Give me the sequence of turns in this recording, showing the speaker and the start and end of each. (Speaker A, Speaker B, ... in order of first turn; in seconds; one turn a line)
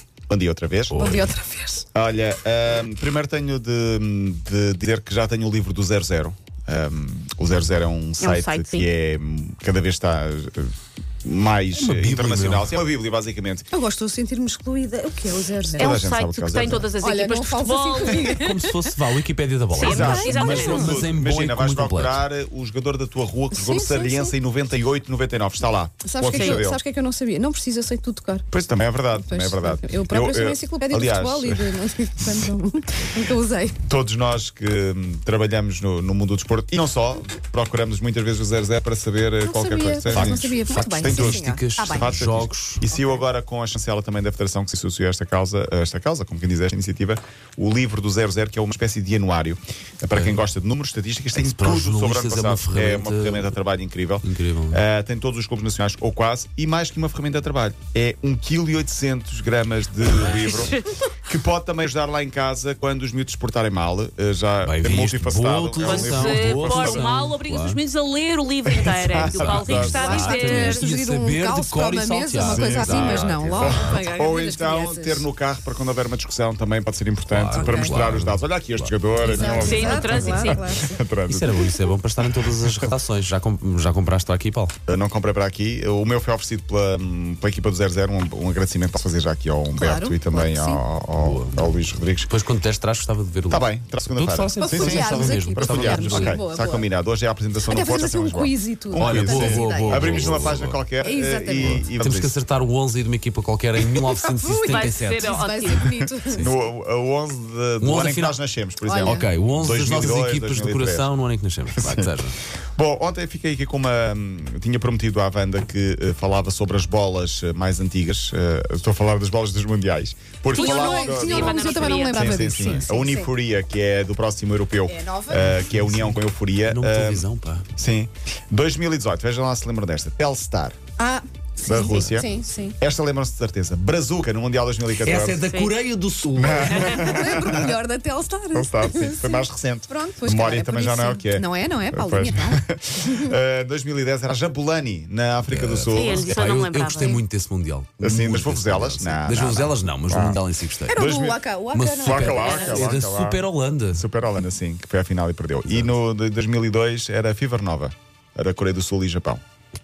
Speaker A: 0.3-1.1
Speaker B: 0.9-1.3
Speaker C: 1.0-1.9
Speaker A: 1.9-13.7
Speaker D: 8.2-8.9
Speaker B: 11.8-12.7
Speaker C: 13.7-16.0
Speaker A: 15.8-16.9
Speaker D: 15.8-18.4
Speaker C: 17.0-18.7
Speaker B: 18.1-22.2
Speaker D: 19.7-20.9
Speaker C: 19.8-21.1
Speaker A: 19.8-26.8
Speaker C: 23.5-24.3
Speaker C: 26.0-28.5
Speaker D: 26.3-26.6
Speaker A: 28.5-31.7
Speaker C: 29.2-33.8
Speaker A: 33.8-67.1
Speaker C: 39.4-42.1
Speaker B: 40.1-42.9
Speaker B: 50.1-50.5
Speaker B: 51.4-53.5
Speaker B: 54.2-54.8
Speaker B: 60.1-60.8
Speaker D: 60.2-60.9
Speaker B: 64.6-67.8
Speaker D: 65.8-70.9
Speaker A: 68.7-70.0
Speaker B: 69.2-74.1
Speaker C: 69.9-75.3
Speaker A: 72.4-82.9
Speaker B: 77.3-80.5
Speaker C: 77.5-77.9
Speaker C: 79.2-81.0
Speaker D: 79.5-80.7
Speaker B: 81.3-84.7
Speaker A: 84.9-92.3
Speaker C: 89.7-90.8
Speaker B: 91.2-96.4
Speaker A: 93.5-102.3
Speaker C: 94.6-96.9
Speaker C: 97.7-100.4
Speaker B: 99.0-100.8
Speaker C: 101.0-101.8
Speaker B: 101.6-105.4
Speaker C: 104.2-106.5
Speaker D: 104.7-105.8
Speaker A: 105.8-111.1
Speaker B: 107.8-108.4
Speaker C: 108.8-109.3
Speaker B: 109.0-112.4
Speaker A: 111.8-112.2
Speaker A: 112.8-127.3
Speaker D: 120.5-122.4
Speaker C: 120.5-123.3
Speaker B: 122.5-122.9
Speaker C: 124.9-125.7
Speaker B: 125.7-127.7
Speaker A: 127.8-130.8
Speaker C: 131.0-132.8
Speaker A: 131.6-132.3
Speaker A: 132.8-135.4
Speaker B: 135.0-137.6
Speaker D: 135.4-135.8
Speaker A: 136.3-137.7
Speaker C: 136.8-143.3
Speaker A: 138.5-146.3
Speaker B: 145.5-151.0
Speaker D: 145.9-147.2
Speaker A: 148.0-150.4
Speaker C: 150.9-152.9
Speaker A: 150.9-151.4
Speaker B: 151.7-154.0
Speaker A: 152.0-153.4
Speaker A: 153.9-159.4
Speaker B: 155.7-155.9